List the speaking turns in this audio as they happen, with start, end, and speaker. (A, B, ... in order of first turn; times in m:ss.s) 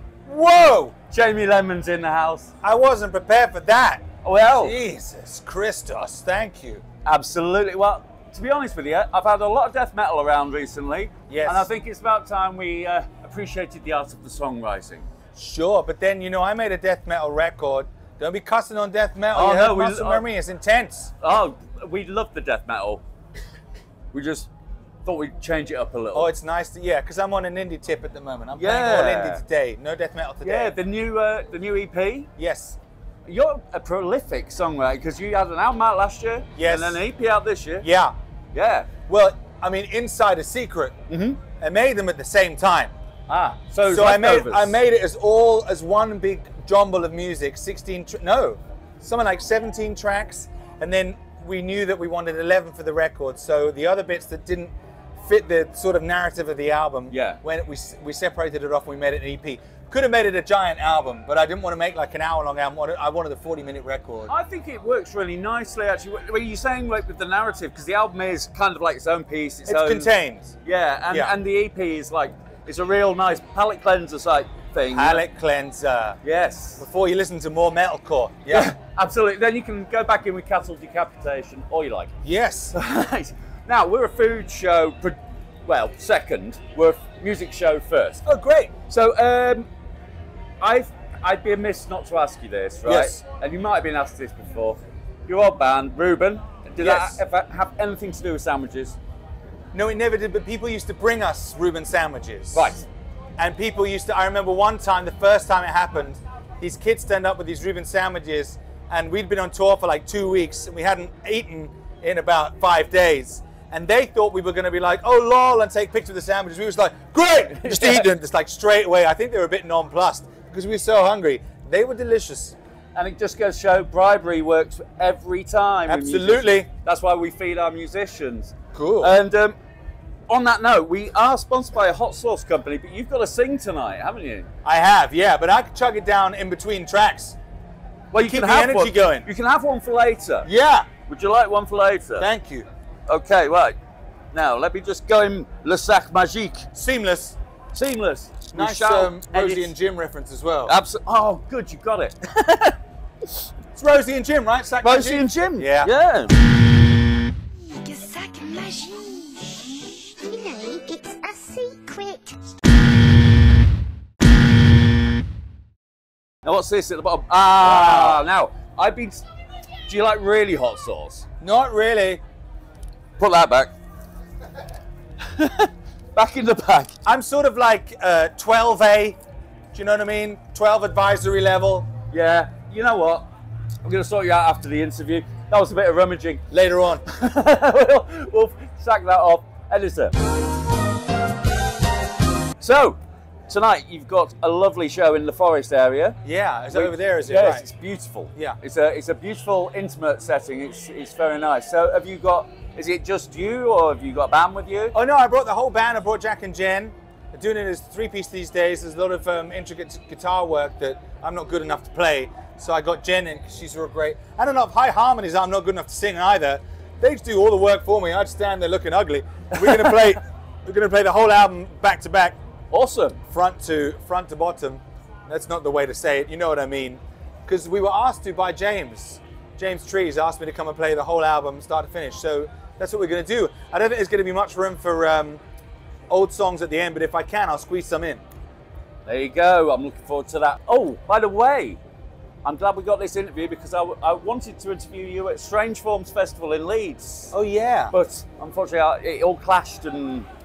0:00.2-0:00.9 A
0:01.1-0:02.5 B
0:02.6-0:06.8 A
0:04.2-0:04.8 B
0:07.0-0:15.1 B
0:11.3-0:11.7 A
0:15.3-0:21.2 A
0:19.3-0:20.2 B
0:21.2-0:23.0 B
0:24.1-0:24.5 B
0:25.0-0:26.3 B
0:26.1-0:30.7 A
0:28.6-0:29.4 B
0:30.4-0:32.3 B
0:32.4-0:32.8 A
0:33.3-0:37.9 B
0:36.6-0:37.0 A
0:37.8-0:38.1 A
0:38.5-0:38.9 B
0:39.1-0:41.0 A
0:41.1-0:41.4 B
0:41.5-0:42.9 A
0:43.3-0:44.7 B
0:43.8-1:04.3 A
0:57.1-0:57.4 B
1:04.3-1:10.1 B
1:09.6-1:10.6 A
1:10.6-1:15.2 B
1:14.9-1:16.2 A
1:16.2-1:16.8 B
1:16.8-1:18.7 A
1:18.5-1:22.1 B
1:22.2-1:22.8 A
1:22.7-1:28.2 B
1:28.2-1:28.8 A
1:28.9-1:29.7 B
1:30.6-1:39.0 B
1:32.8-1:33.2 A
1:36.8-1:37.2 A
1:39.7-1:42.7 A
1:42.5-1:42.8 B
1:43.4-2:02.6 A
1:57.6-1:58.1 B
2:02.9-2:09.5 B
2:05.9-2:06.7 A
2:08.7-2:09.1 A
2:10.3-2:14.5 B
2:14.6-2:17.4 A
2:18.1-2:20.5 B
2:18.1-2:19.3 A
2:20.4-2:20.9 A
2:21.1-2:22.3 B
2:22.2-2:22.7 A
2:23.1-2:23.8 B
2:24.3-2:26.7 B
2:26.7-2:27.4 A
2:27.7-2:29.7 B
2:28.5-2:30.7 A
2:30.7-2:32.7 B
2:33.7-2:35.9 A
2:34.8-2:36.3 B
2:37.8-2:39.6 C
2:40.2-2:42.4 C
2:46.4-2:49.2 B
2:47.4-2:48.2 A
2:49.9-2:51.2 B
2:51.4-2:52.2 A
2:53.2-2:53.7 B
2:55.3-2:56.9 B
2:57.0-2:59.2 A
2:59.7-3:01.9 A
3:02.1-3:03.2 B
3:03.8-3:06.4 B
3:06.5-3:07.0 A
3:07.0-3:10.1 B
3:12.6-3:13.0 B
3:13.5-3:16.2 B
3:16.2-3:17.6 A
3:16.7-3:24.9 B
3:24.9-3:42.4 A
3:39.7-3:40.1 B
3:42.7-3:43.2 B
3:43.3-3:55.4 A
3:56.1-3:58.2 A
3:59.0-4:01.8 B
4:02.4-4:07.3 B
4:07.3-4:07.9 A
4:07.9-4:10.3 B